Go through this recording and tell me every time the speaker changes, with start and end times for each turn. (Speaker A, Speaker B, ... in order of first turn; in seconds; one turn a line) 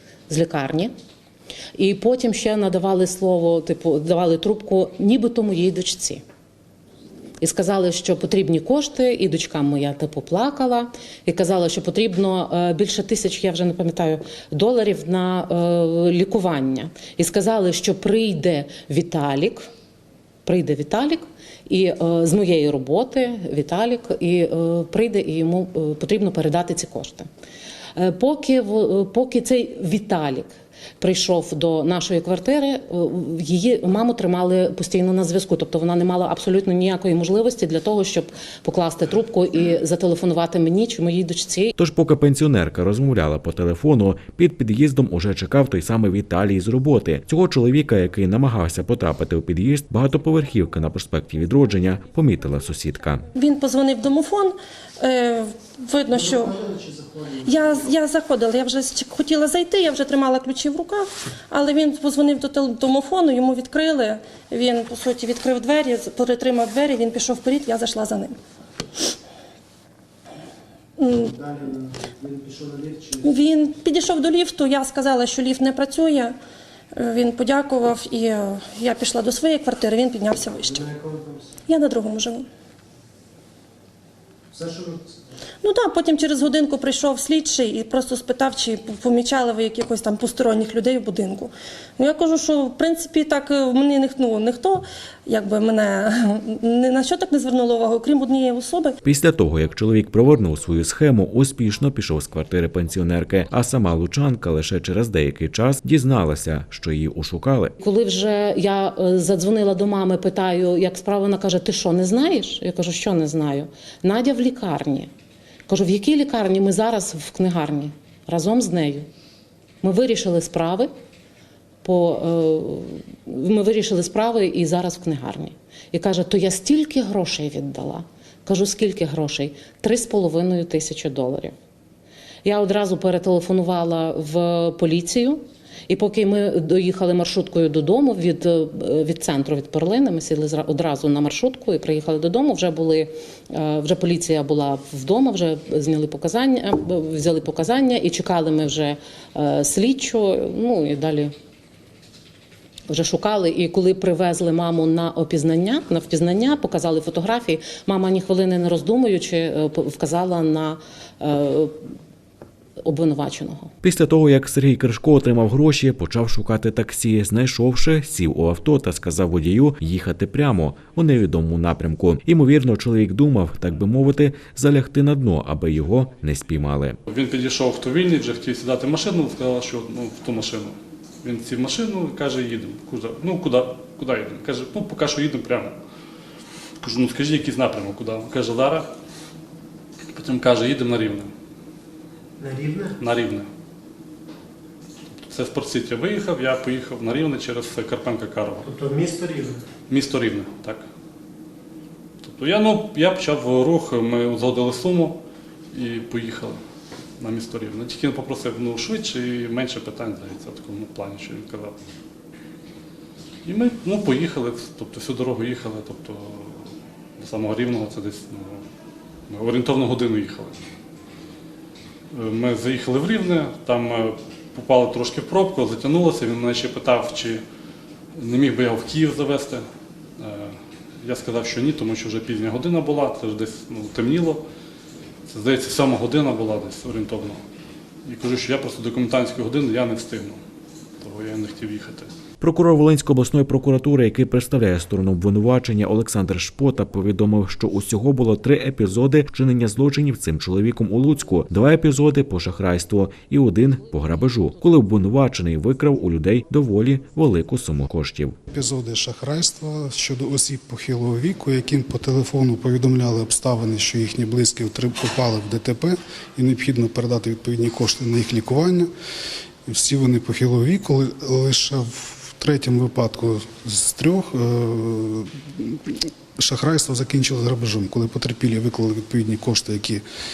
Speaker A: 0.3-0.9
Speaker A: 1.8-6.2
Speaker A: 7.4-19.7
Speaker A: 20.4-27.3
Speaker A: 27.9-41.7
Speaker B: 41.8-53.2
Speaker C: 53.4-56.7
Speaker D: 56.2-57.7
Speaker C: 57.4-68.3
Speaker C: 71.0-71.4
Speaker D: 71.5-73.2
Speaker C: 73.2-76.3
Speaker C: 76.9-80.9
Speaker D: 80.7-81.5
Speaker C: 81.7-82.5
Speaker D: 84.5-85.0
Speaker C: 85.6-99.0
Speaker B: 99.0-107.7
Speaker A: 107.8-115.1
Speaker A: 115.7-119.1
Speaker A: 119.8-120.9
Speaker A: 121.8-131.6
Speaker A: 132.4-151.3
Speaker A: 152.9-161.8
Speaker A: 162.8-163.7
Speaker B: 163.8-177.0
Speaker E: 177.1-185.8
Speaker E: 186.8-188.9
Speaker E: 190.1-191.3
Speaker D: 192.4-192.9
Speaker E: 193.0-193.5
Speaker E: 195.2-198.7
Speaker D: 198.7-199.6
Speaker E: 199.9-200.9
Speaker E: 202.2-206.6
Speaker E: 207.2-211.8
Speaker E: 213.4-218.7
Speaker E: 219.3-220.6
Speaker E: 222.1-227.4
Speaker E: 228.1-229.7
Speaker E: 230.2-234.4
Speaker E: 235.3-237.4
Speaker E: 238.1-240.4
Speaker E: 241.0-242.1
Speaker B: 242.4-258.4
Speaker F: 258.5-268.9
Speaker F: 269.7-280.0